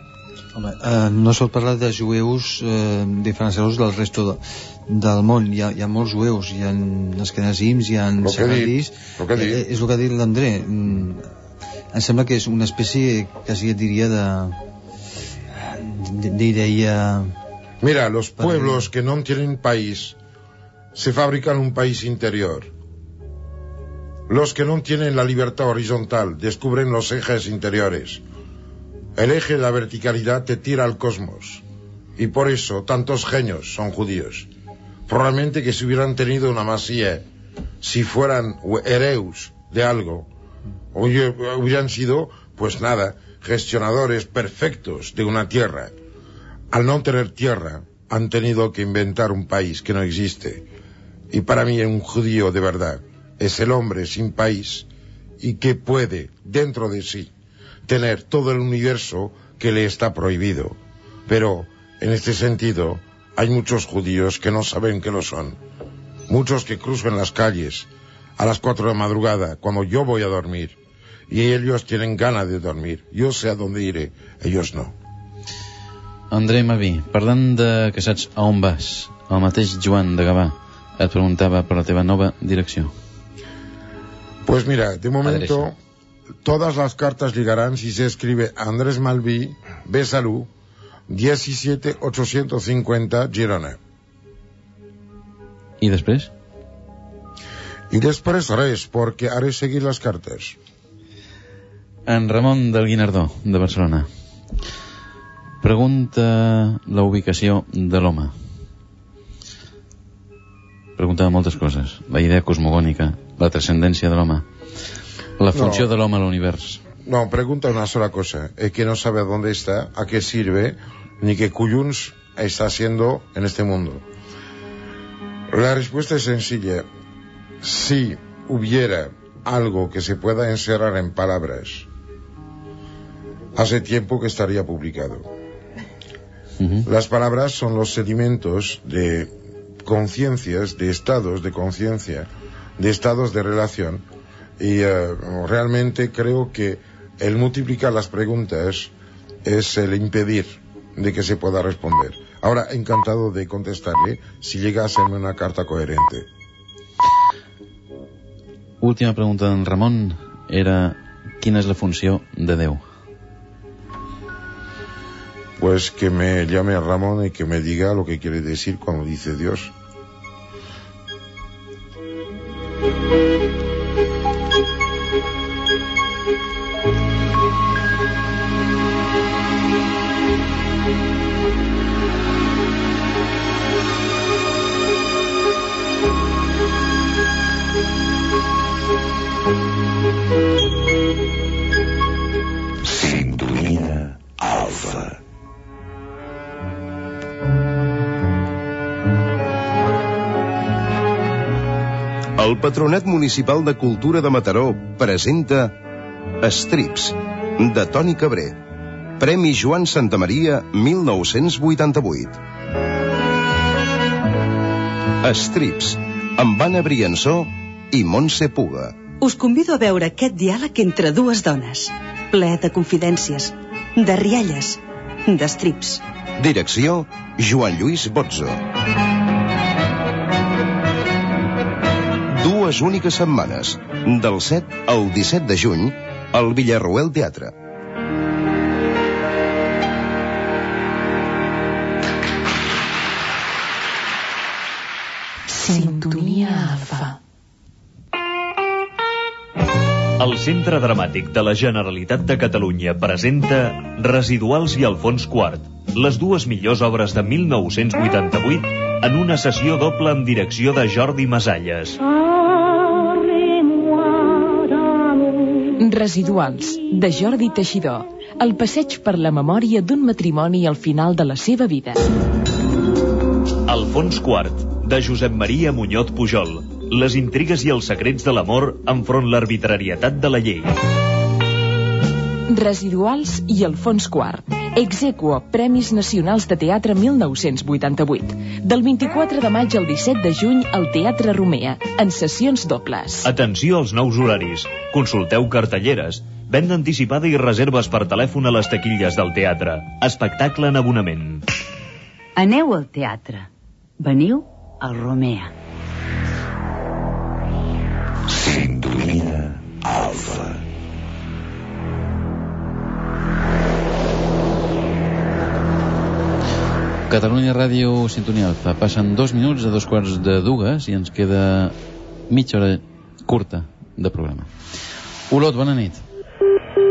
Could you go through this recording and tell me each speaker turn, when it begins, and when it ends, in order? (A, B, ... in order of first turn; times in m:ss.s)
0:00.6-0:11.3 A
0:08.2-0:09.6 B
0:11.9-0:14.6 A
0:15.6-0:17.4 A
0:17.8-0:20.2 B
0:18.4-0:18.8 A
0:20.9-0:22.7 B
0:24.3-0:28.2 B
0:29.2-0:31.6 B
0:32.2-0:34.5 B
0:35.1-0:37.2 B
0:37.8-0:40.3 B
0:40.9-0:46.0 B
0:46.7-0:50.7 B
0:51.3-0:54.9 B
0:55.4-0:57.3 B
0:57.9-1:05.6 B
1:06.3-1:10.8 B
1:11.3-1:15.0 B
1:16.3-1:22.9 C
1:24.4-1:25.8 B
1:25.2-1:25.7 C
1:26.4-1:30.5 B
1:31.1-1:33.8 B
1:35.8-1:36.3 C
1:37.9-1:40.6 B
1:42.1-1:44.1 C
1:45.6-1:48.3 C
1:51.0-1:54.4 C
1:55.4-1:56.8 C
1:55.5-1:55.9 B
1:57.0-2:04.1 B
2:05.5-2:06.9 B
2:07.6-2:11.9 B
2:13.6-2:15.3 B
2:16.8-2:19.3 B
2:19.8-2:24.0 B
2:24.6-2:28.9 B
2:29.4-2:36.3 B
2:38.8-2:42.8 C
2:45.6-2:49.7 B
3:13.0-3:15.1 D
3:22.4-3:25.8 D
3:26.4-3:28.6 D
3:29.2-3:32.4 D
3:35.2-3:39.0 D
3:39.2-3:46.0 E
3:46.4-3:48.6 D
3:52.3-3:57.5 D
4:05.7-4:07.0 F
4:10.2-4:22.0 G
4:25.8-4:32.0 F
4:33.7-4:40.8 G
4:42.5-4:53.3 F
4:53.2-5:01.5 G
5:02.4-5:03.5 H
5:04.0-5:05.5 H
5:17.1-5:21.8 C
5:22.3-5:24.5 C
5:25.3-5:26.0 C